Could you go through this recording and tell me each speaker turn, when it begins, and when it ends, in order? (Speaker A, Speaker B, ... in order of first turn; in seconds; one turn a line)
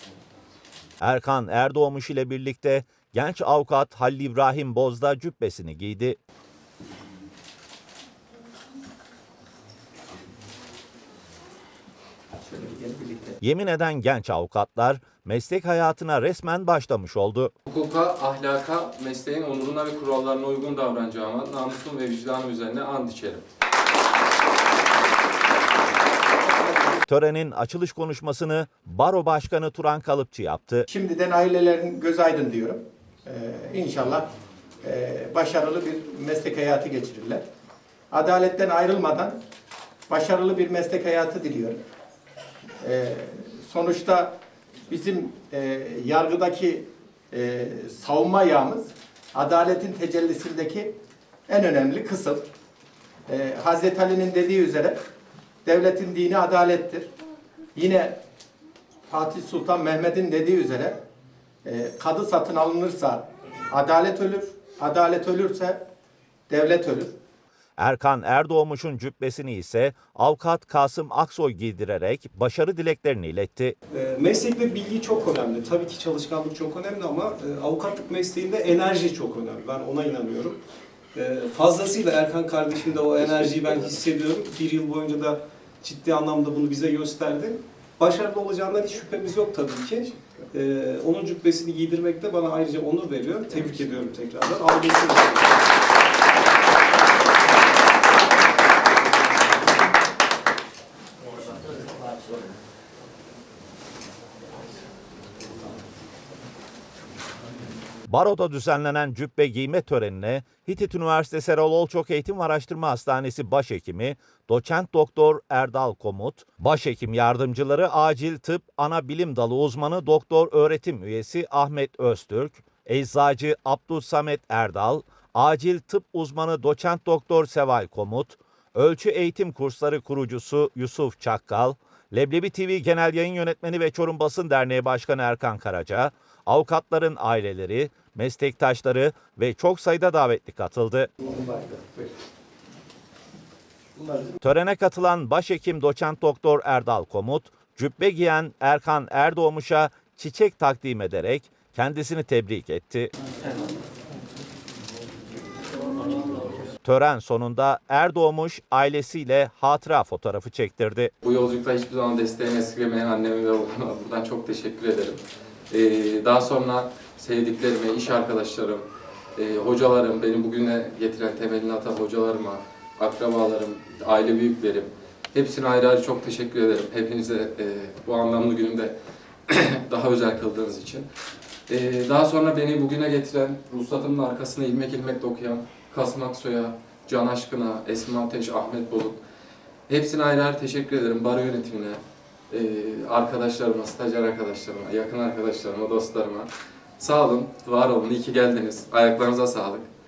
Speaker A: 1.0-6.2
Speaker B: 12.4-13.4
Speaker A: 13.4-17.5
Speaker C: 17.7-23.4
Speaker A: 27.1-30.9
Speaker B: 30.9-34.3
Speaker B: 34.8-37.4
Speaker B: 38.1-39.4
Speaker B: 40.1-41.8
Speaker B: 42.8-44.4
Speaker B: 44.9-51.0
Speaker B: 51.5-52.4
Speaker B: 53.3-55.0
Speaker B: 55.6-57.1
Speaker B: 57.8-58.2
Speaker B: 59.1-61.0
Speaker B: 61.6-65.8
Speaker B: 66.5-67.1
Speaker A: 67.8-73.8
Speaker D: 73.9-80.6
Speaker D: 81.1-95.6
Speaker A: 108.1-141.1
Speaker B: 141.4-141.9
Speaker A: 144.4-153.1
Speaker A: 156.8-161.1
Speaker C: 161.2-178.9
Speaker C: 179.5-181.1
Speaker C: 181.7-189.2
Speaker C: 189.9-199.9